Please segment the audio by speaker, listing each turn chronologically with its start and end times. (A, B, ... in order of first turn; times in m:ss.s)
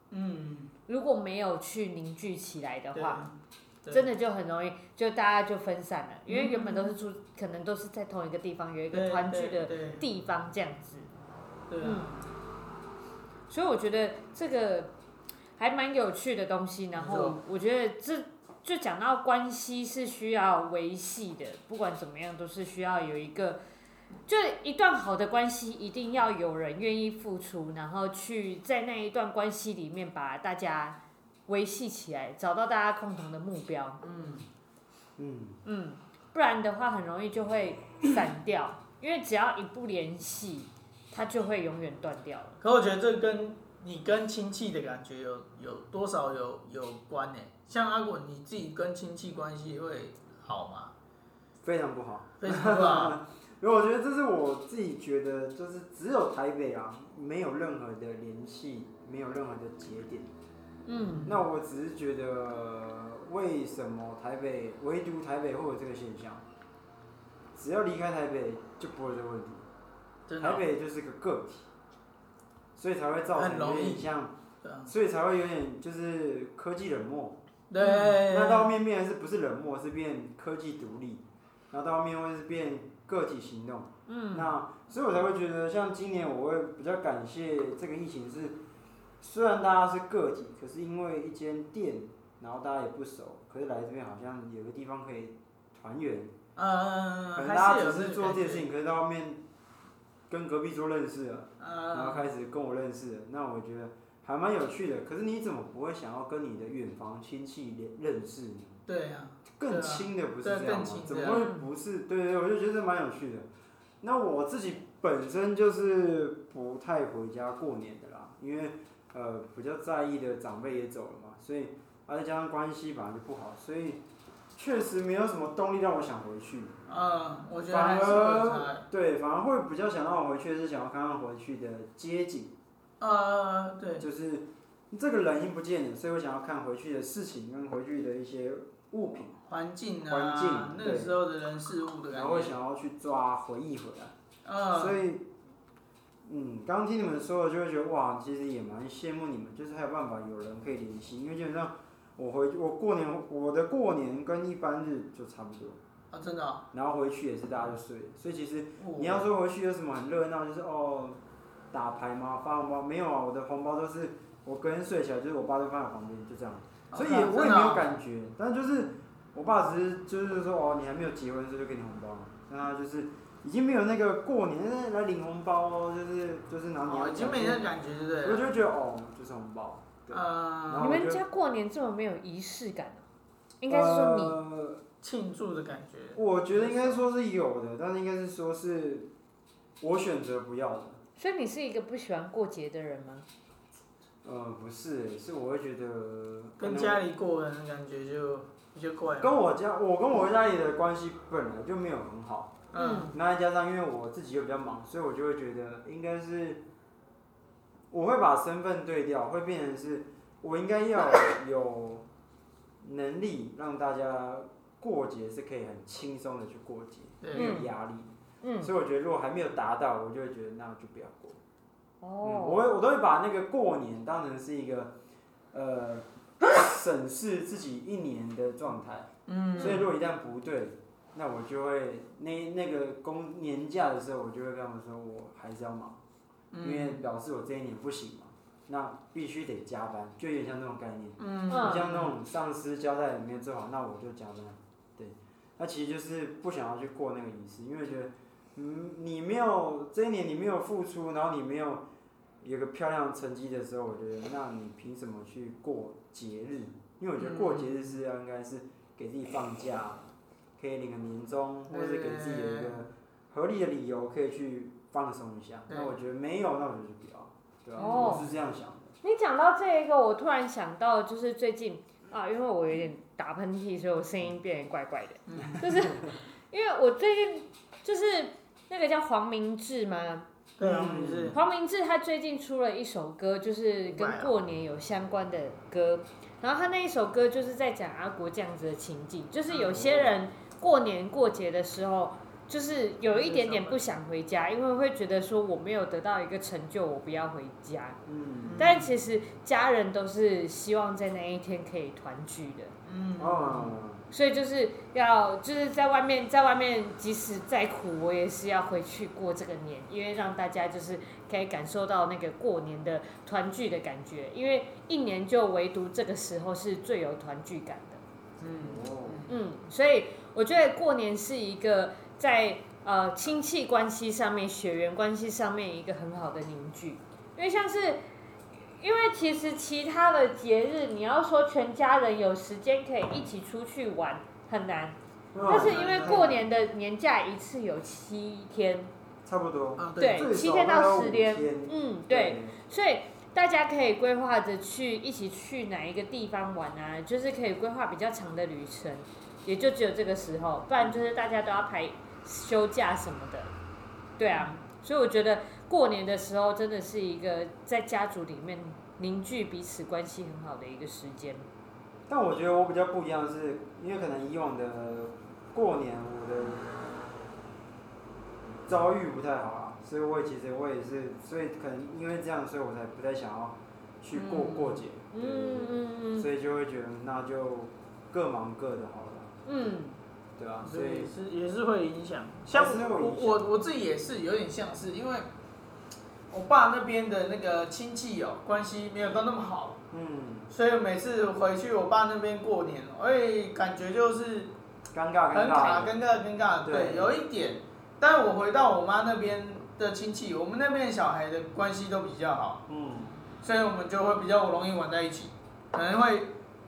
0:00.1-0:00.7 A
0:00.9-0:03.3 B
0:02.9-0:04.1 A
0:03.9-0:11.1 B
0:06.3-0:06.9 A
0:08.9-0:10.0 A
0:11.7-0:12.1 A
0:11.8-0:12.2 B
0:13.5-0:14.9 B
0:15.6-0:23.6 B
0:17.0-0:17.4 A
0:24.3-0:34.0 B
0:34.0-0:34.5 A
0:35.2-0:35.6 C
0:35.6-0:42.6 B
0:42.6-0:50.9 A
0:51.6-1:00.3 C
0:52.4-0:53.2 A
1:00.9-1:01.4 B
1:01.0-1:01.3 A
1:01.2-1:06.4 C
1:07.6-1:09.7 C
1:10.3-1:10.6 A
1:10.4-1:11.7 C
1:12.8-1:14.3 C
1:13.4-1:14.1 A
1:14.6-1:14.9 A
1:14.9-1:17.4 C
1:17.7-1:18.7 A
1:17.8-1:18.2 B
1:18.2-1:28.6 C
1:24.1-1:24.5 B
1:29.2-1:36.3 C
1:36.6-1:38.7 A
1:37.4-1:39.4 C
1:40.3-1:48.8 C
1:41.6-1:42.3 A
1:48.9-1:51.5 A
1:49.6-1:53.5 C
1:51.2-1:51.7 B
1:54.0-2:04.0 C
2:04.6-2:06.8 C
2:06.9-2:08.8 A
2:07.7-2:12.5 C
2:13.0-2:14.0 A
2:14.0-2:19.4 C
2:19.5-2:22.5 A
2:20.1-2:21.2 C
2:22.1-2:24.1 C
2:24.4-2:25.0 A
2:24.7-2:25.3 C
2:26.2-2:35.8 C
2:36.1-2:36.6 A
2:36.7-2:41.2 C
2:38.8-2:39.2 A
2:41.7-2:57.7 C
2:46.9-2:47.9 A
2:56.9-2:58.5 A
2:58.2-3:01.2 C
3:00.1-3:00.9 A
3:00.8-3:03.0 B
3:03.6-3:04.4 B
3:03.7-3:04.8 C
3:05.0-3:07.0 A
3:06.2-3:09.1 C
3:09.8-3:11.0 C
3:11.2-3:13.3 B
3:14.2-3:17.0 C
3:16.6-3:19.4 A
3:19.2-3:22.6 C
3:22.7-3:23.1 A
3:22.8-3:23.2 B
3:23.1-3:26.6 C
3:27.9-3:32.0 C
3:32.8-3:41.4 C
3:37.2-3:37.6 A
3:37.3-3:37.7 B
3:38.4-3:38.7 B
3:42.0-3:42.7 B
3:42.2-3:44.9 C
3:45.5-3:56.0 C
3:49.3-3:49.9 A
3:49.6-3:49.8 B
3:56.5-3:57.0 A
3:56.6-4:11.8 C
4:01.2-4:02.1 A
4:01.5-4:01.9 B
4:12.4-4:20.0 C
4:17.2-4:17.7 A
4:20.6-4:28.9 C
4:21.7-4:22.8 A
4:25.7-4:25.9 A
4:27.8-4:28.3 A
4:27.8-4:28.2 B
4:29.0-4:40.3 B
4:35.3-4:35.6 A
4:40.6-4:41.4 A
4:40.6-4:41.4 C
4:41.3-4:58.0 B
4:43.9-4:44.3 A
4:49.5-4:49.8 A
4:49.7-4:50.1 C
4:53.1-4:53.8 A
4:58.1-4:58.7 C
4:58.4-4:58.9 A
4:58.6-5:02.7 B
5:02.9-5:03.8 A
5:03.2-5:04.0 C
5:04.1-5:18.0 B
5:18.4-5:19.3 A
5:18.6-5:19.3 C
5:19.3-5:28.1 B
5:28.7-5:38.9 B
5:35.3-5:36.4 C
5:35.4-5:36.4 A
5:39.2-5:42.6 C
5:39.8-5:40.3 A
5:40.0-5:53.5 B
5:54.2-6:01.5 B
6:02.1-6:06.7 C
6:08.7-6:19.7 C
6:14.1-6:14.8 A
6:15.1-6:16.3 B
6:19.5-6:20.0 B
6:20.4-6:21.1 C
6:20.6-6:25.3 A
6:22.5-6:23.4 C
6:26.3-6:29.8 A
6:29.9-6:30.5 C
6:30.5-6:34.5 A
6:34.9-6:35.9 C
6:35.3-6:42.6 A
6:36.6-6:37.2 C
6:42.7-6:43.2 C
6:43.4-6:46.3 A